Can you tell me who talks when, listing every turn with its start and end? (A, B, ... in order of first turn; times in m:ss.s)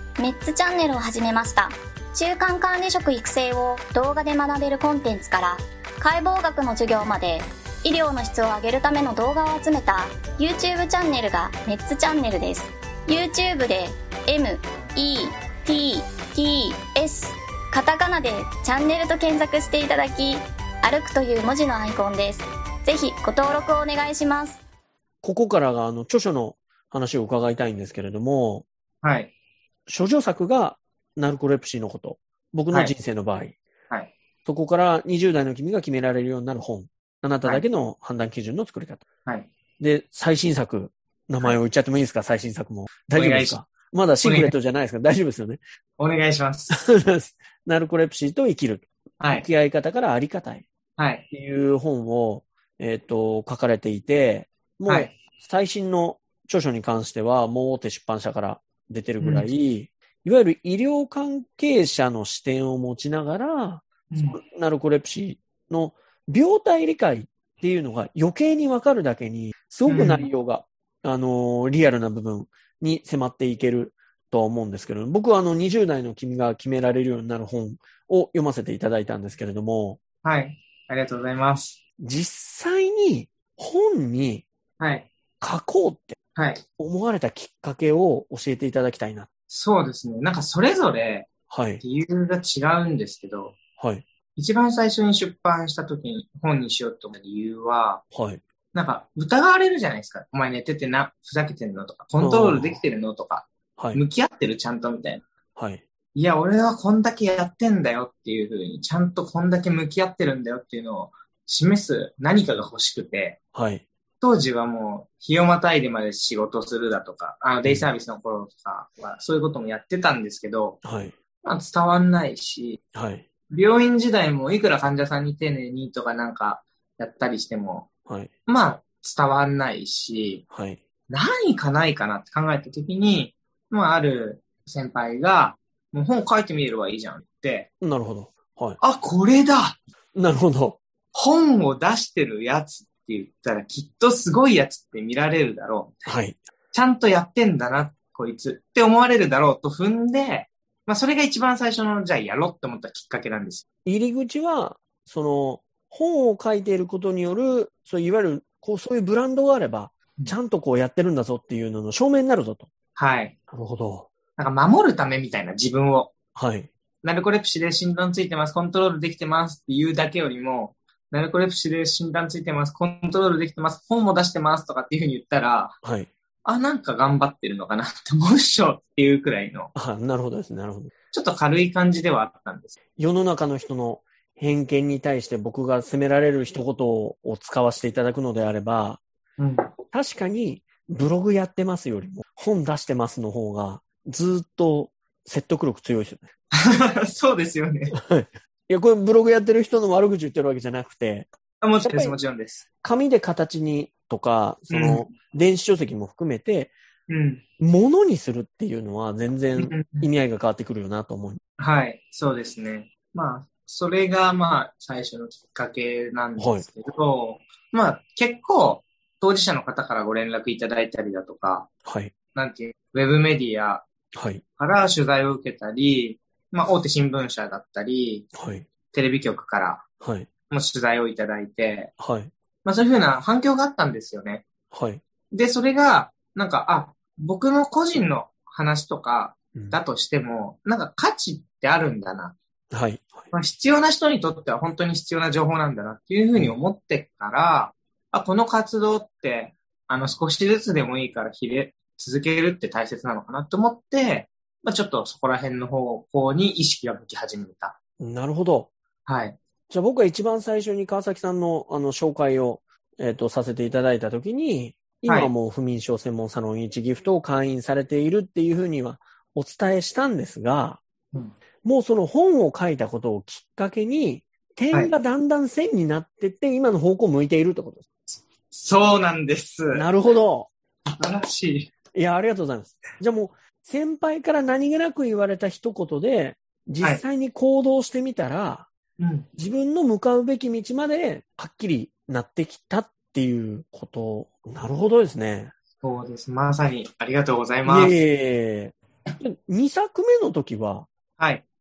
0:00.2-0:24.6 A
0:25.2-0:28.6 B
0:29.0-0:29.3 C
0:29.9-0:33.6 B
0:34.4-0:39.0 B
0:39.8-0:45.6 B
0:43.1-0:43.6 C
0:44.2-0:44.5 C
0:46.0-0:46.8 C
0:46.7-0:50.7 B
0:49.2-0:49.5 C
0:51.0-0:51.2 C
0:51.3-1:20.0 B
0:54.9-0:55.1 C
0:59.2-0:59.5 C
1:04.1-1:04.4 C
1:09.9-1:10.3 C
1:20.2-1:21.8 C
1:22.0-1:24.5 B
1:24.8-1:25.1 C
1:25.4-1:26.2 B
1:26.4-1:26.6 C
1:26.8-1:29.3 B
1:29.5-1:31.3 C
1:31.5-1:31.8 B
1:31.8-1:33.6 C
1:33.8-1:34.0 B
1:34.4-1:38.0 C
1:38.1-1:38.4 B
1:38.7-1:45.2 C
1:42.2-1:42.8 B
1:45.6-1:45.8 B
1:46.2-1:53.4 C
1:53.5-1:53.8 B
1:54.2-2:00.8 C
2:00.8-2:01.1 B
2:01.4-2:02.8 C
2:03.0-2:03.2 B
2:03.5-2:07.9 C
2:08.5-2:10.4 C
2:10.5-2:10.8 B
2:11.1-2:17.7 C
2:17.8-2:18.8 B
2:18.8-2:19.8 C
2:20.2-2:20.8 B
2:21.1-2:26.1 C
2:26.1-2:26.4 B
2:26.7-2:33.6 C
2:33.8-2:42.7 B
2:43.0-2:43.4 C
2:43.5-2:44.1 B
2:44.4-2:46.1 C
2:46.4-2:46.7 B
2:47.0-2:55.8 C
2:55.8-2:56.1 B
2:56.4-2:59.7 C
2:59.8-3:00.9 B
3:01.1-3:02.8 C
3:03.0-3:09.0 B
3:09.4-3:09.7 C
3:09.9-3:16.3 B
3:16.5-3:18.0 C
3:17.9-3:21.3 B
3:21.6-3:22.7 C
3:21.8-3:22.2 B
3:22.8-3:26.7 B
3:24.7-3:25.1 C
3:27.1-3:27.4 C
3:27.6-3:31.4 B
3:29.6-3:30.1 C
3:31.6-3:41.7 C
3:36.4-3:36.7 B
3:41.8-3:42.1 B
3:42.4-3:43.8 C
3:44.1-3:44.4 B
3:44.6-3:48.3 C
3:48.3-3:48.7 B
3:48.9-3:49.8 C
3:50.0-3:50.3 B
3:50.5-3:51.9 C
3:52.0-3:52.3 B
3:52.6-3:54.4 C
3:54.7-3:55.0 B
3:55.3-4:02.4 C
4:02.7-4:03.3 B
4:03.3-4:17.8 C
4:18.0-4:18.7 B
4:19.1-4:19.4 C
4:19.7-4:30.8 B
4:25.1-4:25.3 C
4:31.6-4:37.8 B
4:38.1-4:39.9 C
4:39.7-4:40.5 B
4:40.9-4:41.7 C
4:41.9-4:48.7 B
4:49.0-4:49.3 C
4:49.4-4:55.5 B
4:55.8-4:57.9 C
4:57.6-5:00.9 B
5:01.2-5:01.4 C